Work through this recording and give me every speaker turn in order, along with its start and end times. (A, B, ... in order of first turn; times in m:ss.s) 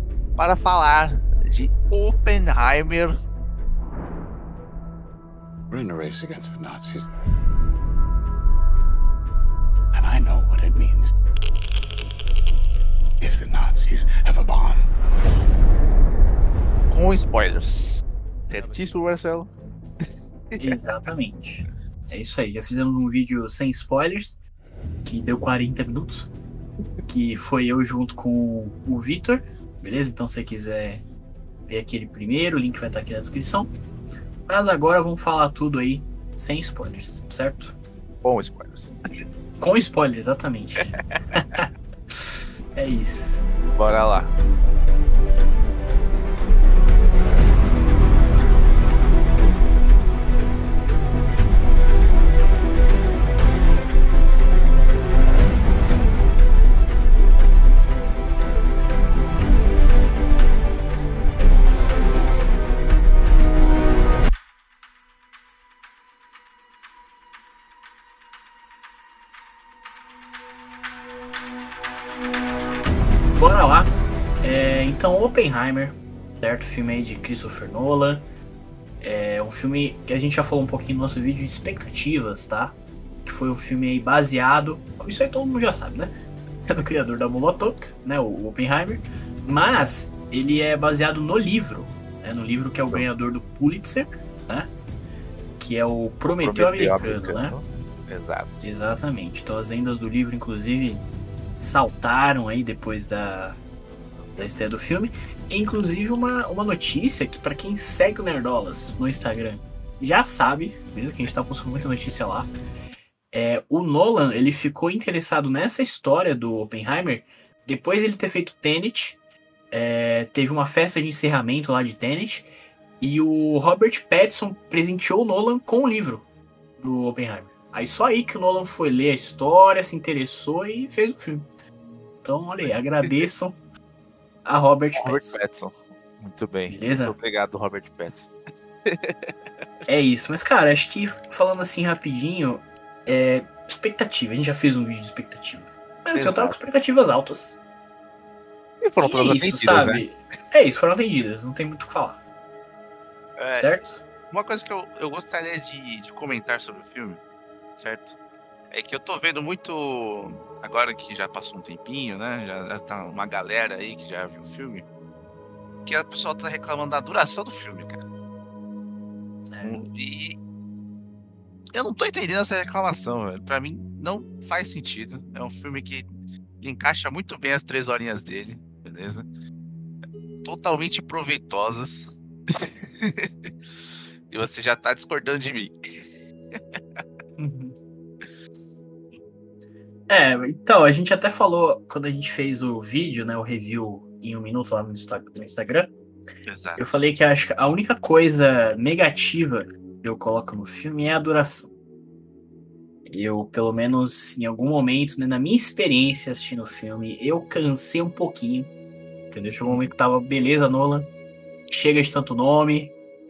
0:00.4-0:03.1 A
0:05.7-0:07.1 B
0:09.9-0:11.1 B
0:13.2-0:14.8 B
0:16.9-0:19.5 A
0:20.6-0:24.4 C
0:25.0-0:26.3 C
0:27.1-0:31.0 C
0:31.7-0:33.7 C
0:34.5-0:37.7 C
0:38.2-0:39.0 A
0:39.6-0:43.4 C
0:43.7-0:44.3 A
1:13.4-1:18.2 C
1:19.0-1:26.1 C
1:26.6-1:34.7 C
1:35.6-1:37.6 C
1:36.4-1:38.8 A
1:38.6-1:41.0 C
1:41.6-1:43.6 C
1:44.4-1:52.5 C
1:53.3-1:59.2 C
1:59.7-2:02.5 C
2:03.0-2:06.2 C
2:06.8-2:11.4 C
2:12.2-2:13.6 C
2:14.4-2:15.4 C
2:15.0-2:18.3 A
2:16.7-2:17.2 C
2:18.8-2:19.3 A
2:19.9-2:27.6 C
2:26.1-2:26.6 A
2:28.8-2:30.0 A
2:29.0-2:32.2 C
2:33.4-2:33.7 A
2:33.5-2:34.0 C
2:34.3-2:37.2 A
2:37.8-2:38.2 A
2:38.7-2:44.8 A
2:45.8-2:48.0 A
2:49.5-2:49.8 C
2:49.6-2:50.4 A
2:51.7-2:56.1 A
2:56.6-2:59.3 A
3:00.4-3:03.3 A
3:04.3-3:07.0 A
3:07.4-3:07.7 C
3:10.1-3:15.9 C
3:16.4-3:17.0 A
3:16.8-3:21.7 C
3:23.1-3:28.7 C
3:29.3-3:31.1 C
3:31.7-3:32.9 C